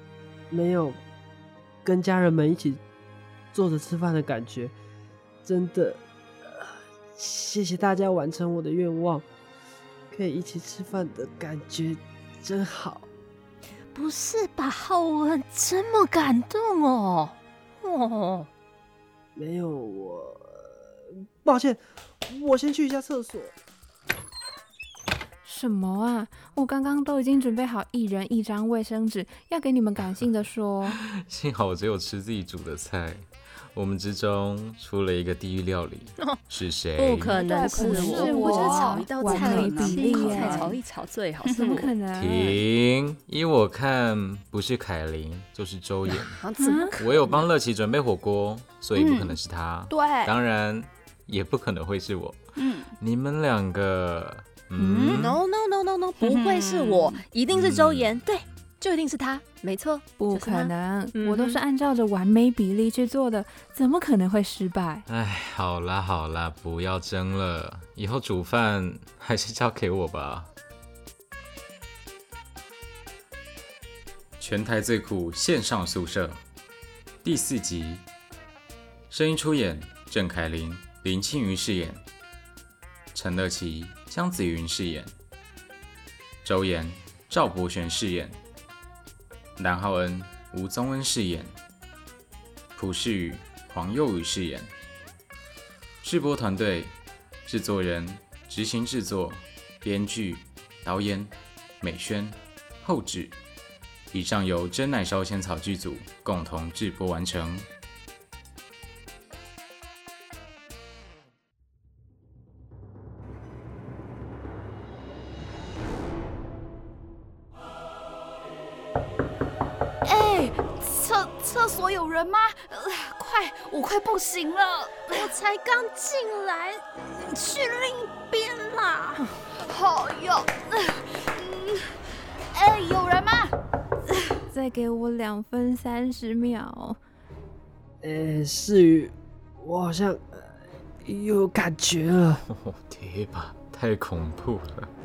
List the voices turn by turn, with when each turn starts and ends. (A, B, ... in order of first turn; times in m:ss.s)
0:00.5-0:01.0 A
0:01.8-0:02.8 A
0:03.5-0:04.7 A
0:05.4-0:09.3 A
0:10.1-0:13.1 A
0:13.9-0:18.5 B
0:19.4-0:20.8 A
0:21.4-0:23.5 A
0:25.4-0:31.0 C
0:30.9-0:37.4 D
0:37.0-0:41.9 B
0:37.4-0:40.8 E
0:37.6-0:40.8 C
0:41.4-0:41.9 E
0:41.6-0:42.6 C
0:42.1-0:46.4 D
0:46.0-0:47.5 B
0:46.6-0:47.0 C
0:47.0-0:52.4 D
0:48.9-0:50.4 E
0:52.6-0:52.9 E
0:53.0-0:55.4 D
0:54.8-0:55.3 E
0:55.1-1:01.6 B
0:56.2-0:57.2 E
0:57.5-0:58.2 D
1:00.2-1:05.0 C
1:05.1-1:10.5 D
1:14.4-1:16.4 D
1:17.2-1:18.1 D
1:19.1-1:22.0 D
1:23.1-1:25.1 D
1:26.4-1:28.4 D
1:29.6-1:31.6 D
1:32.8-1:34.7 D
1:36.0-1:36.9 D
1:37.4-1:43.4 D
1:44.1-1:47.7 D
2:00.0-2:05.3 E
2:05.1-2:09.4 B
2:09.5-2:13.5 E
2:14.5-2:17.0 C
2:18.0-2:20.5 A
2:21.0-2:22.4 A
2:22.5-2:24.9 D